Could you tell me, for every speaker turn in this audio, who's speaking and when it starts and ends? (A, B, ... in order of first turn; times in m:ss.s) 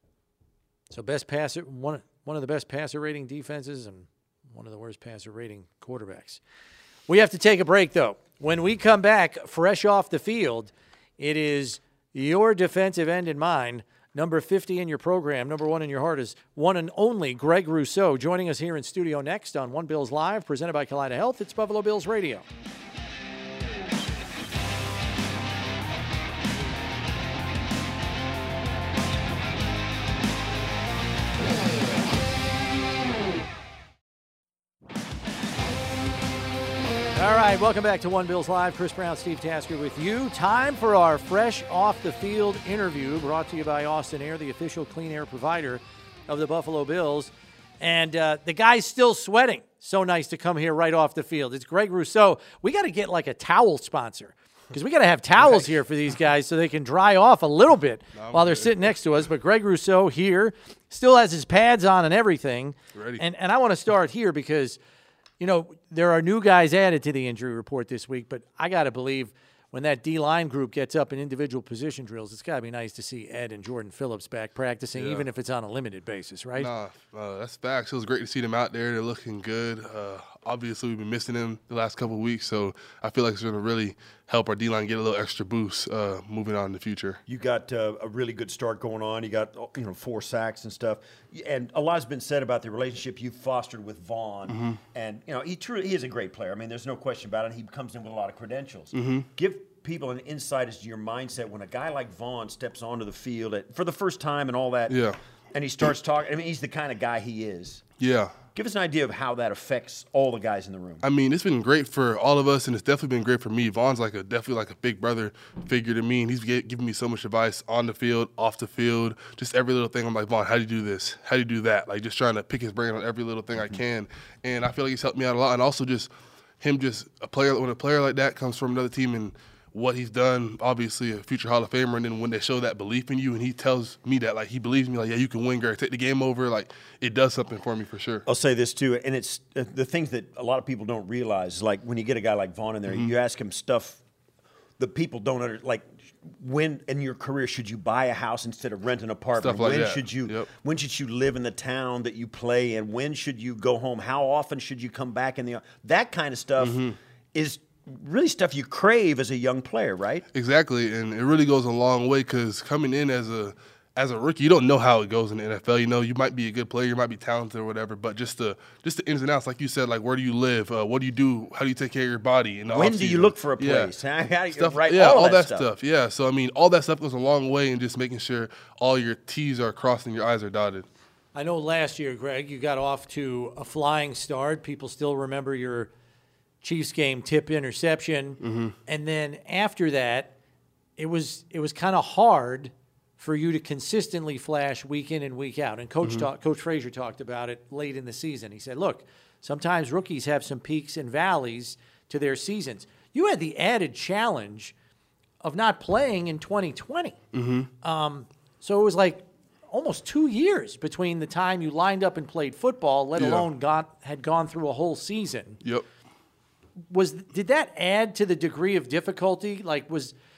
0:00.9-0:06.4 A
0:07.1-0:22.5 A
0:37.2-1:04.8 A
0:55.4-0:55.7 B
0:58.2-0:58.9 B
1:02.9-1:03.2 B
1:05.4-1:16.7 A
1:15.0-1:15.3 B
1:16.6-1:27.2 B
1:27.3-1:45.0 C
1:34.5-1:34.8 B
1:38.9-1:39.3 B
1:44.9-1:45.2 B
1:45.5-1:47.8 C
1:48.0-1:48.3 B
1:48.6-1:51.0 C
1:51.0-2:18.2 B
2:18.3-2:24.0 C
2:22.9-2:23.1 B
2:24.8-2:36.8 C
2:29.4-2:30.5 B
2:36.6-2:37.0 B
2:37.3-2:40.2 C
2:40.3-2:53.9 B
2:52.7-2:55.7 C
2:54.5-3:00.9 B
3:01.3-3:05.9 A
3:06.6-3:10.3 A
3:08.4-3:08.7 B
3:11.0-3:24.7 A
3:16.0-3:16.3 B
3:25.4-3:27.2 A
3:27.3-3:27.7 B
3:27.8-3:35.6 A
3:33.2-3:33.5 B
3:36.9-3:40.1 A